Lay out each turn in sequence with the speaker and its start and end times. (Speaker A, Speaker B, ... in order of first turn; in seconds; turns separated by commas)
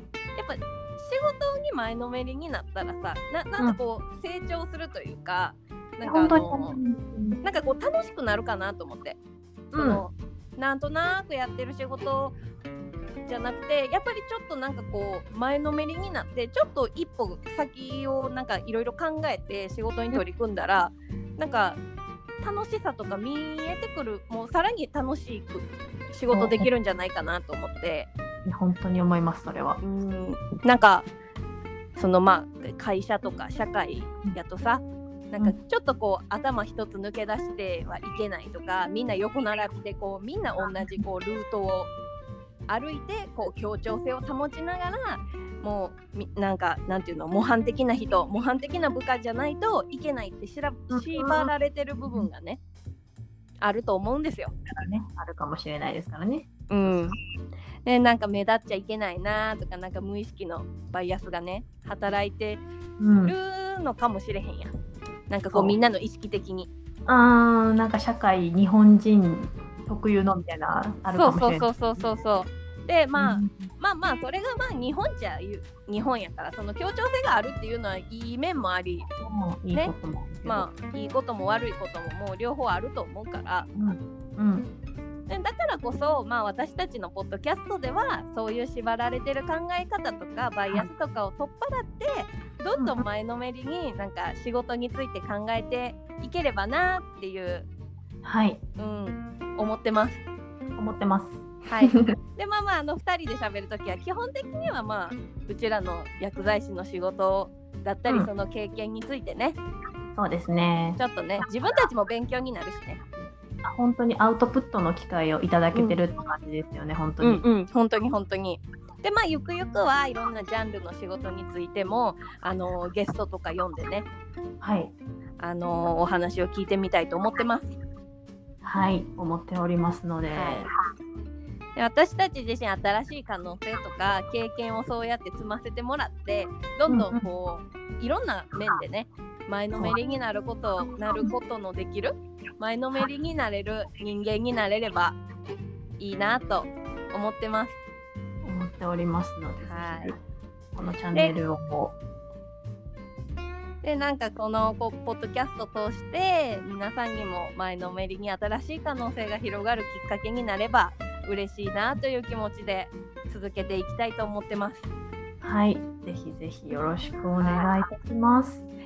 Speaker A: 0.3-6.8, Speaker B: 6.0-7.4, Speaker A: 7.4-9.2, Speaker B: 9.7-10.0, Speaker A: 9.7-12.4, Speaker A: 13.2-21.8, Speaker A: 22.4-28.1, Speaker B: 26.3-26.7, Speaker B: 28.4-29.8, Speaker A: 29.8-31.1, Speaker A: 31.9-41.9, Speaker A: 42.7-52.6, Speaker B: 50.9-51.5, Speaker A: 53.6-54.5, Speaker B: 54.7-57.0, Speaker A: 56.7-57.1, Speaker A: 57.8-62.6, Speaker B: 63.0-63.3, Speaker A: 63.2-64.7, Speaker A: 65.3-66.7, Speaker B: 67.0-72.0, Speaker A: 71.1-79.1, Speaker B: 73.2-73.7, Speaker B: 79.2-80.7, Speaker A: 80.4-83.7, Speaker B: 83.7-84.7, Speaker A: 85.3-97.7, Speaker B: 92.8-93.0, Speaker B: 98.2-98.6, Speaker A: 98.8-100.2, Speaker B: 100.8-102.1, Speaker A: 101.7-109.6, Speaker B: 110.1-111.0, Speaker A: 111.0-113.0, Speaker B: 113.6-117.4, Speaker A: 115.7-116.0, Speaker A: 117.2-124.1, Speaker B: 124.6-124.9, Speaker A: 125.4-127.7, Speaker B: 128.6-130.7, Speaker A: 130.3-130.7, Speaker A: 131.8-145.2, Speaker B: 136.9-137.2, Speaker A: 146.0-147.8, Speaker B: 148.4-150.2, Speaker A: 149.6-150.1, Speaker B: 150.7-151.9, Speaker A: 153.8-164.9, Speaker B: 165.4-168.6, Speaker A: 167.4-167.7